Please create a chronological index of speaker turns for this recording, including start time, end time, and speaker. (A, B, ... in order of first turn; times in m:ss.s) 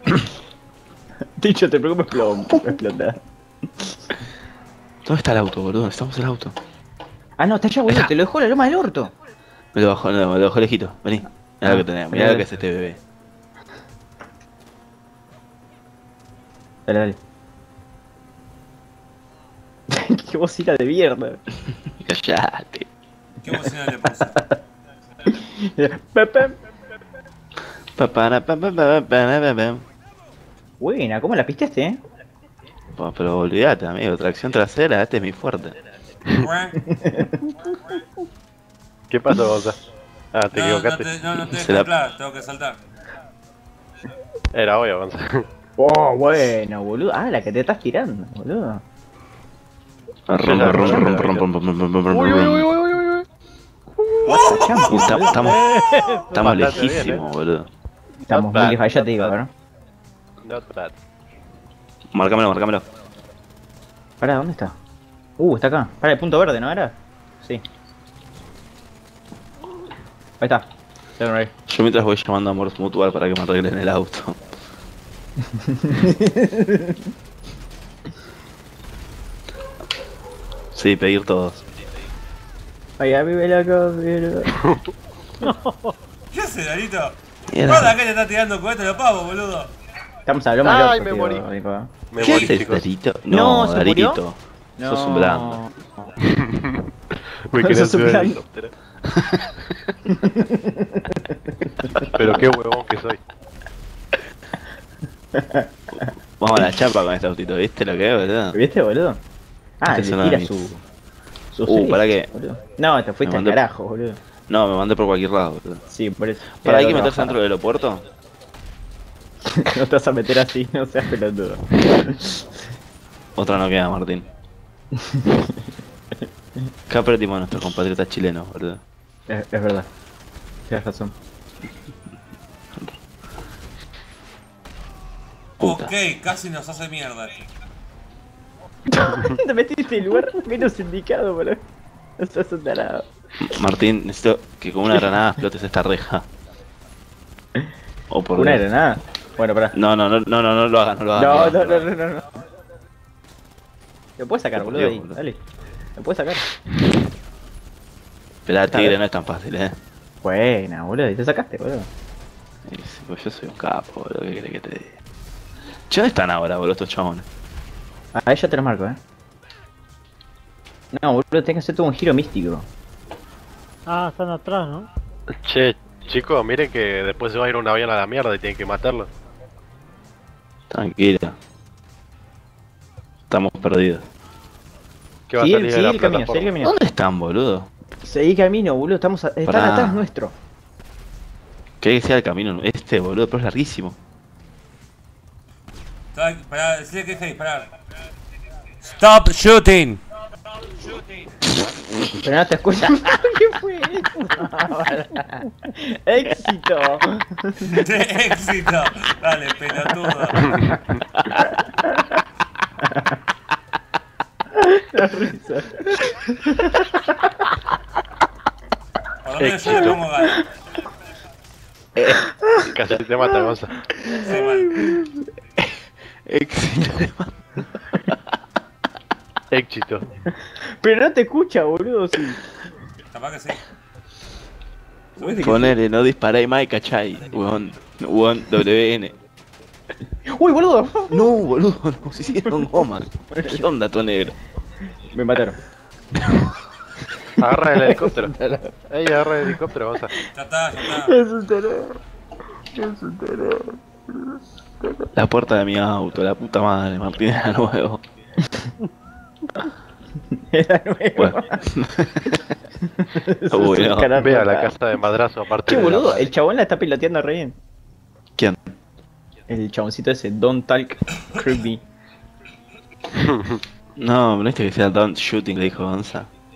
0:01.4-0:03.2 A
0:05.0-0:06.6 B
0:07.4-0:09.1 A
0:09.7-0:13.0 B
0:11.6-0:12.5 A
0:16.9-0:17.2 A
0:19.9-0:21.4 A
0:22.0-0:22.9 B
0:23.4-0:24.4 C
0:25.3-0:26.6 A
0:28.0-0:29.8 B
0:30.8-0:32.0 A
0:32.9-0:35.8 B
0:36.3-0:36.8 C
0:36.8-0:37.5 A
0:39.1-0:39.8 D
0:40.3-0:41.1 D
0:40.5-0:42.8 C
0:41.5-0:41.9 B
0:44.5-0:45.4 D
0:45.8-0:48.8 A
0:50.3-0:52.7 B
0:50.4-0:51.5 D
0:52.1-0:53.3 D
0:54.2-0:55.5 A
0:54.2-0:55.4 C
0:54.9-0:55.6 B
0:55.5-0:56.9 E
0:56.3-0:57.7 B
0:56.4-0:57.2 D
0:58.3-0:59.3 D
0:58.3-0:59.5 A
1:00.4-1:01.0 D
1:02.1-1:02.8 B
1:04.2-1:04.8 A
1:05.4-1:07.6 A
1:10.4-1:10.7 A
1:11.2-1:11.5 A
1:11.7-1:14.4 B
1:15.6-1:17.0 A
1:20.7-1:21.6 B
1:23.0-1:24.5 A
1:25.4-1:25.9 E
1:26.3-1:29.7 C
1:27.5-1:28.0 B
1:30.3-1:31.9 A
1:30.6-1:31.4 D
1:32.1-1:32.9 D
1:32.2-1:32.6 C
1:32.2-1:35.6 B
1:33.3-1:34.2 A
1:34.8-1:36.1 A
1:36.3-1:38.7 D
1:37.6-1:38.4 A
1:39.2-1:39.7 B
1:40.1-1:42.4 A
1:42.1-1:43.2 D
1:45.4-1:46.6 A
1:46.4-1:48.6 B
1:48.5-1:49.2 A
1:49.8-1:50.8 A
1:49.9-1:50.7 B
1:51.5-1:54.2 A
1:51.7-1:52.3 B
1:53.2-1:53.6 B
1:54.5-1:55.8 B
1:55.9-1:57.4 A
1:56.6-1:58.0 B
1:59.6-2:02.5 A
2:03.4-2:04.3 B
2:05.0-2:05.5 A
2:06.9-2:08.8 B
2:09.3-2:09.9 A
2:10.7-2:11.1 A
2:15.6-2:15.9 B
2:15.6-2:17.5 C
2:18.9-2:21.6 A
2:22.2-2:23.1 A
2:23.4-2:26.3 B
2:28.1-2:28.6 B
2:28.4-2:29.8 A
2:29.7-2:31.9 B
2:31.2-2:32.3 A
2:34.2-2:35.4 A
2:34.6-2:35.2 B
2:36.0-2:36.5 A
2:38.5-2:39.8 B
2:38.7-2:39.0 A
2:40.2-2:41.9 A
2:42.7-2:45.0 B
2:45.9-2:47.3 B
2:48.2-2:49.0 A
2:50.9-2:52.7 A
2:53.9-2:54.9 E
2:55.4-2:59.1 D
3:00.7-3:01.4 B
3:03.3-3:04.0 B
3:05.3-3:06.5 D
3:05.4-3:06.7 A
3:06.6-3:07.7 B
3:08.0-3:10.4 A
3:09.5-3:10.0 B
3:11.8-3:14.0 B
3:16.1-3:17.7 C
3:18.8-3:20.0 C
3:22.1-3:27.6 A
3:27.6-3:30.5 C
3:31.7-3:32.0 A
3:34.6-3:37.1 A
3:39.2-3:40.4 C
3:39.4-3:40.0 D
3:39.7-3:40.4 A
3:42.6-3:43.8 D
3:43.4-3:45.1 A
3:44.2-3:44.9 C
3:45.6-3:47.4 B
3:49.5-3:50.1 D
3:50.6-3:52.4 A
3:53.1-3:53.6 C
3:55.2-3:55.8 A
3:55.2-3:55.8 C
3:55.4-3:59.1 B
4:00.3-4:01.3 A
4:01.1-4:04.4 B
4:02.4-4:03.6 A
4:05.1-4:05.6 A
4:07.4-4:08.3 D
4:07.7-4:08.7 A
4:08.9-4:10.1 D
4:10.3-4:11.2 C
4:10.9-4:12.0 A
4:12.8-4:14.4 A
4:15.1-4:18.0 B
4:20.5-4:21.6 A
4:21.2-4:22.4 B
4:22.9-4:24.7 A
4:23.5-4:24.1 B
4:24.2-4:26.3 D
4:25.6-4:27.6 A
4:29.5-4:31.8 A
4:33.2-4:33.6 D
4:34.0-4:36.3 B